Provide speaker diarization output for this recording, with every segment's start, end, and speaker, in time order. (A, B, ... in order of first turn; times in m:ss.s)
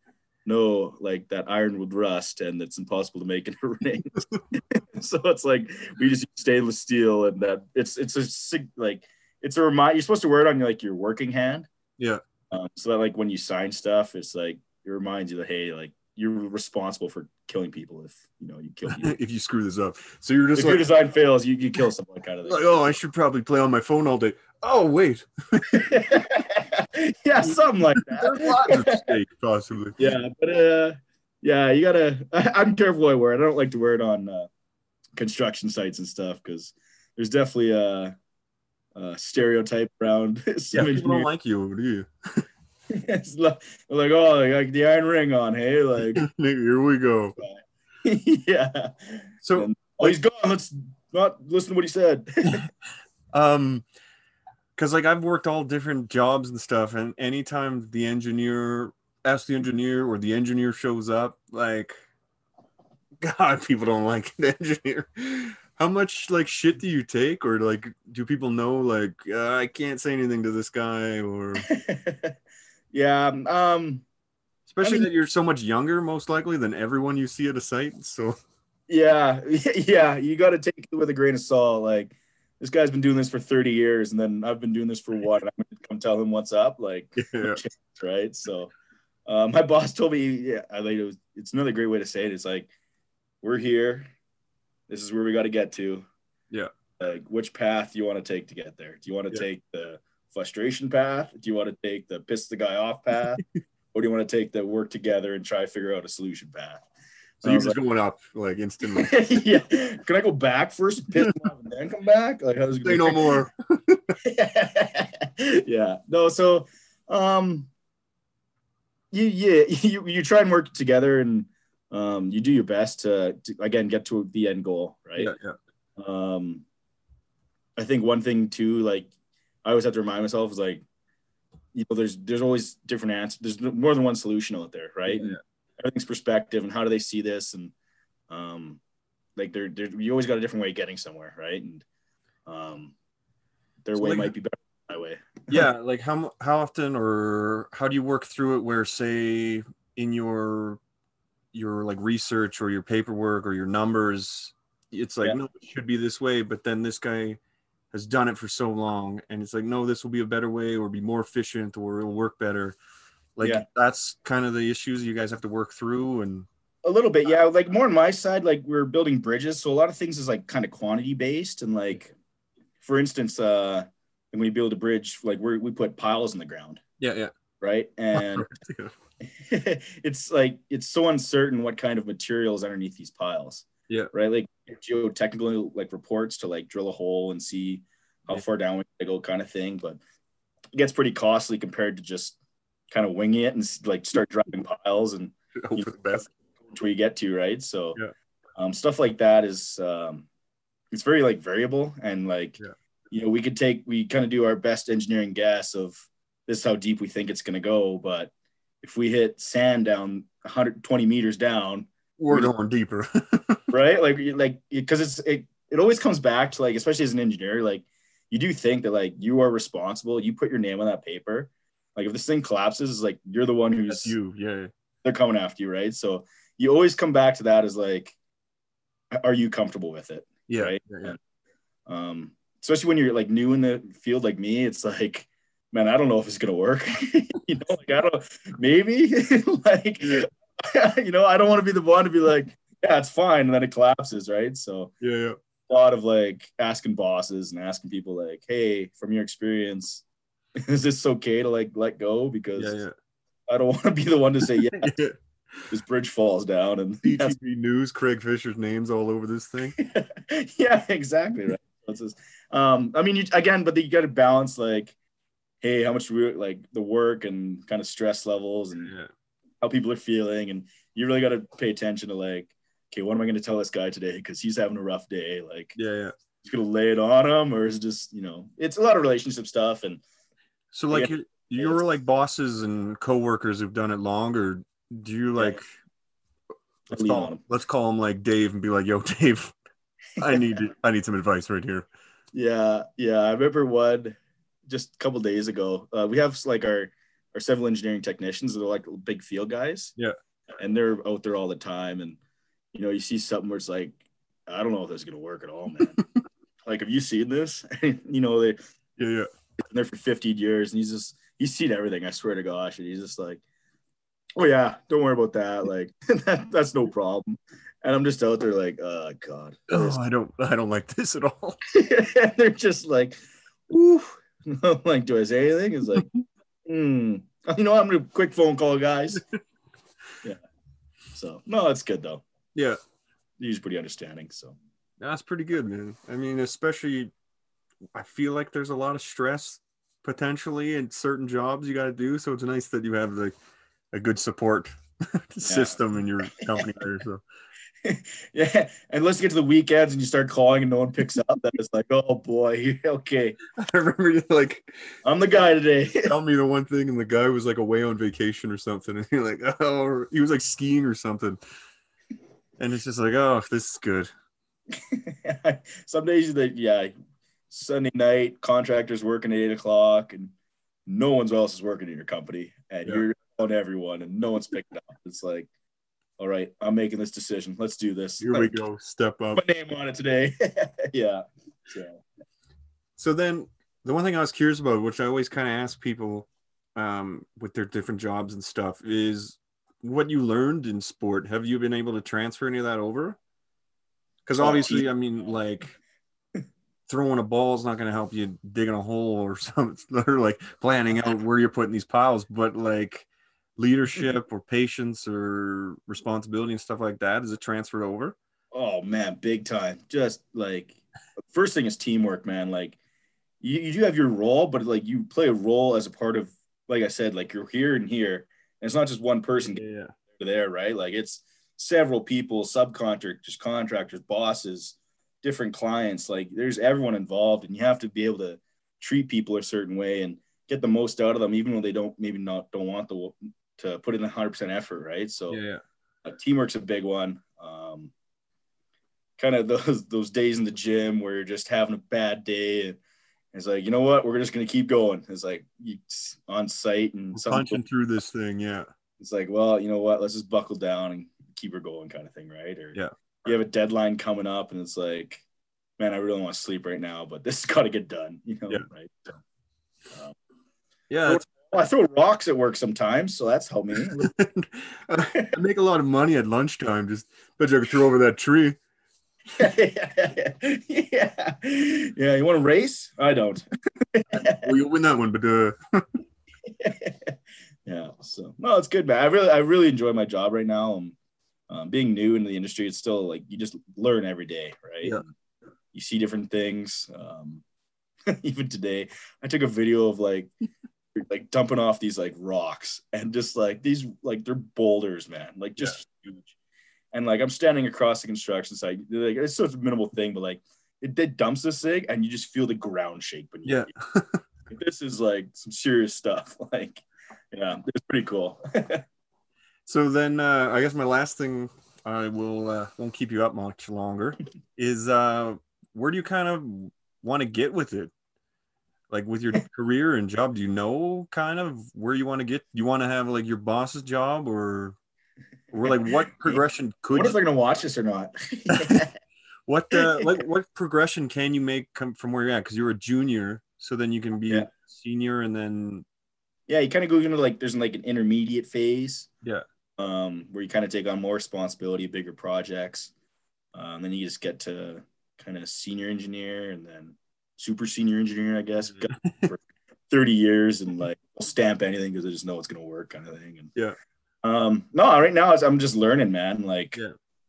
0:00.4-0:11.7 A
0:12.5-0:19.2 A
0:18.9-0:20.8 B
0:20.5-0:22.9 A
0:22.4-0:25.9 B
0:25.7-0:29.0 A
0:27.4-0:30.0 B
0:30.0-0:34.5 A
0:35.2-0:38.1 A
0:38.9-0:41.3 A
0:40.7-0:42.4 B
0:42.9-0:46.2 A
0:46.1-0:47.4 B
0:47.4-0:52.6 A
0:49.4-0:50.1 B
0:53.3-0:53.8 B
0:54.8-1:02.0 B
1:03.2-1:11.7 B
1:11.6-1:12.3 A
1:12.9-1:14.0 A
1:14.7-1:18.4 B
1:14.8-1:15.1 A
1:18.9-1:28.7 A
1:27.2-1:27.6 B
1:29.3-1:32.7 A
1:33.4-1:34.1 A
1:34.9-1:36.0 A
1:37.0-1:46.8 A
1:47.4-1:47.8 A
1:47.4-1:49.2 B
1:48.8-1:53.4 A
1:52.8-1:54.2 B
1:54.2-1:57.7 A
1:59.1-2:05.3 A
2:05.2-2:05.6 B
2:06.0-2:06.6 A
2:07.8-2:09.1 A
2:09.6-2:10.8 A
2:11.7-2:17.7 A
2:15.1-2:15.4 B
2:18.3-2:18.8 A
2:19.4-2:21.8 A
2:22.4-2:22.9 A
2:23.8-2:25.6 A
2:24.0-2:24.3 B
2:25.5-2:30.8 B
2:31.5-2:37.4 B
2:37.9-2:42.8 B
2:43.4-2:46.5 B
2:46.8-2:52.1 A
2:52.8-2:56.8 A
2:57.0-2:57.3 B
2:57.6-2:58.5 A
2:58.1-2:58.9 B
2:59.3-3:10.0 A
3:10.7-3:12.4 A
3:12.9-3:18.0 A
3:15.6-3:16.3 B
3:18.6-3:20.3 A
3:20.9-3:22.6 A
3:23.1-3:32.5 A
3:32.2-3:33.7 B
3:33.7-3:44.1 A
3:43.9-3:44.7 B
3:45.0-3:48.1 A
3:49.1-3:51.2 A
3:50.5-3:51.2 B
3:51.9-4:04.9 A
4:05.0-4:05.4 B
4:05.7-4:10.0 A
4:10.6-4:12.8 A
4:12.6-4:12.9 B
4:13.5-4:15.0 A
4:14.6-4:15.2 B
4:15.7-4:17.4 A
4:17.0-4:19.8 B
4:19.8-4:24.9 A
4:25.6-4:28.9 A
4:29.6-4:35.8 A
4:35.8-4:36.1 B
4:36.4-4:40.0 A
4:40.7-4:45.6 B
4:40.9-4:41.8 A
4:46.9-4:49.6 B
4:46.9-4:47.4 A
4:50.2-4:51.8 B
4:52.3-4:59.9 A
5:00.6-5:02.2 A
5:02.7-5:06.0 A
5:06.6-5:08.6 A
5:09.0-5:09.3 B
5:09.6-5:13.4 A
5:14.4-5:20.0 A
5:19.7-5:21.6 B
5:21.7-5:23.2 A
5:23.7-5:26.1 A
5:26.6-5:29.2 A
5:31.1-5:32.2 A
5:33.4-5:34.6 A
5:35.0-5:37.1 B
5:37.9-5:43.3 B
5:43.9-5:47.2 B
5:45.4-5:45.8 A
5:47.8-5:53.4 A
5:53.5-5:54.7 B
5:55.0-5:56.1 A
5:56.0-6:01.4 B
6:02.6-6:04.1 B
6:04.7-6:06.9 A
6:07.5-6:10.3 A
6:10.9-6:15.5 A
6:16.2-6:18.6 A
6:18.2-6:19.4 B
6:19.3-6:22.0 A
6:23.0-6:33.2 B
6:34.2-6:35.8 B
6:34.4-6:34.9 A
6:36.9-6:48.2 B
6:48.5-6:50.8 A
6:51.3-6:52.8 A
6:53.4-7:15.4 A
6:59.4-6:59.9 B
7:15.3-7:15.6 B
7:16.0-7:17.9 A
7:19.2-7:22.8 A
7:23.3-7:27.6 A
7:27.1-7:28.7 B
7:29.0-7:35.2 A
7:35.8-7:39.2 A
7:40.9-7:41.2 B
7:41.0-7:44.1 A
7:43.8-7:48.6 B
7:45.0-7:45.3 A
7:49.4-7:54.5 A
7:54.1-7:55.8 B
7:56.5-7:57.1 A
7:57.6-8:00.9 A
8:01.5-8:05.1 A
8:05.7-8:07.4 A
8:08.1-8:10.3 A
8:10.9-8:16.3 A
8:16.9-8:23.7 A
8:23.4-8:24.2 B
8:24.5-8:28.8 A
8:29.6-8:37.9 B
8:38.9-8:44.8 B
8:45.5-8:47.2 B
8:46.9-8:48.9 A
8:48.5-8:48.8 B
8:49.5-8:55.8 B
8:49.7-8:50.0 A
8:56.5-8:59.1 A
8:59.8-9:02.9 A
9:03.5-9:13.5 A
9:08.8-9:09.3 B
9:14.2-9:16.8 A